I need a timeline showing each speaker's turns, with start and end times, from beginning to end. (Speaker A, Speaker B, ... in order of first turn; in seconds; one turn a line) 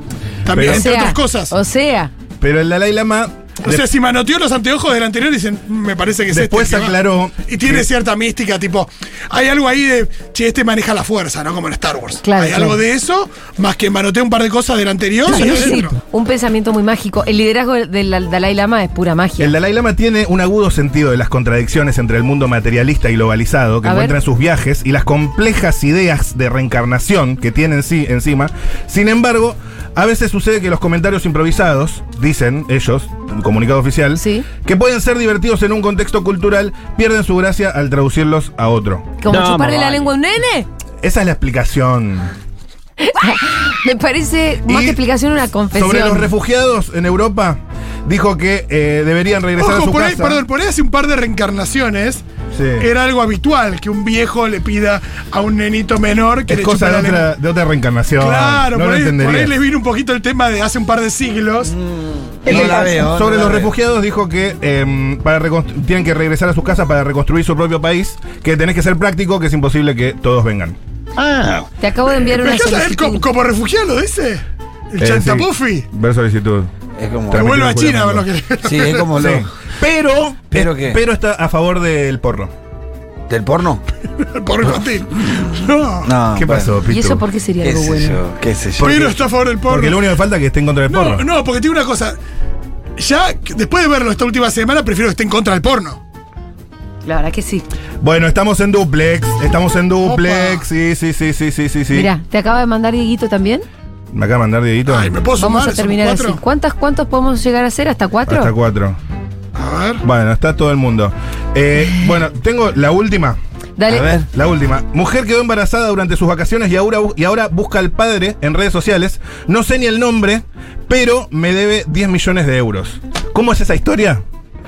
Speaker A: 0.4-1.6
Speaker B: 0.5-0.9
Speaker C: 0.7-2.1
Speaker B: 2.4-3.9
Speaker A: 3.6-7.0
Speaker B: 6.3-7.9
Speaker A: 7.5-16.0
Speaker C: 12.2-12.8
Speaker C: 15.3-19.6
Speaker B: 19.4-39.1
Speaker C: 23.8-24.2
Speaker C: 34.2-34.5
Speaker C: 39.2-40.7
Speaker B: 41.0-42.3
Speaker C: 43.0-46.3
Speaker B: 44.7-45.0
Speaker B: 45.7-50.4
Speaker A: 49.6-52.2
Speaker B: 52.5-52.9
Speaker A: 52.8-57.3
Speaker B: 56.5-59.5
Speaker A: 58.2-61.7
Speaker D: 61.6-63.7
Speaker B: 62.5-70.8
Speaker D: 71.2-71.7
Speaker C: 71.8-73.2
Speaker A: 72.1-75.9
Speaker B: 75.0-76.7
Speaker D: 77.0-77.5
Speaker B: 77.3-78.3
Speaker A: 77.3-79.2
Speaker D: 78.6-79.5
Speaker B: 79.2-82.5
Speaker D: 80.5-81.0
Speaker D: 83.3-83.8
Speaker A: 84.2-86.1
Speaker D: 86.0-86.7
Speaker B: 86.3-87.2
Speaker C: 86.9-88.2
Speaker D: 87.6-89.2
Speaker A: 88.8-90.1
Speaker B: 89.7-91.3
Speaker A: 90.9-92.2
Speaker A: 93.0-96.0
Speaker C: 97.0-97.7
Speaker B: 98.0-102.1
Speaker C: 100.0-100.7
Speaker C: 101.9-103.7
Speaker B: 104.1-105.2
Speaker A: 104.9-106.4
Speaker C: 105.4-108.5
Speaker B: 108.3-109.0
Speaker A: 109.5-110.0
Speaker B: 110.0-113.4
Speaker C: 113.8-114.2
Speaker D: 113.9-114.3
Speaker B: 114.3-124.2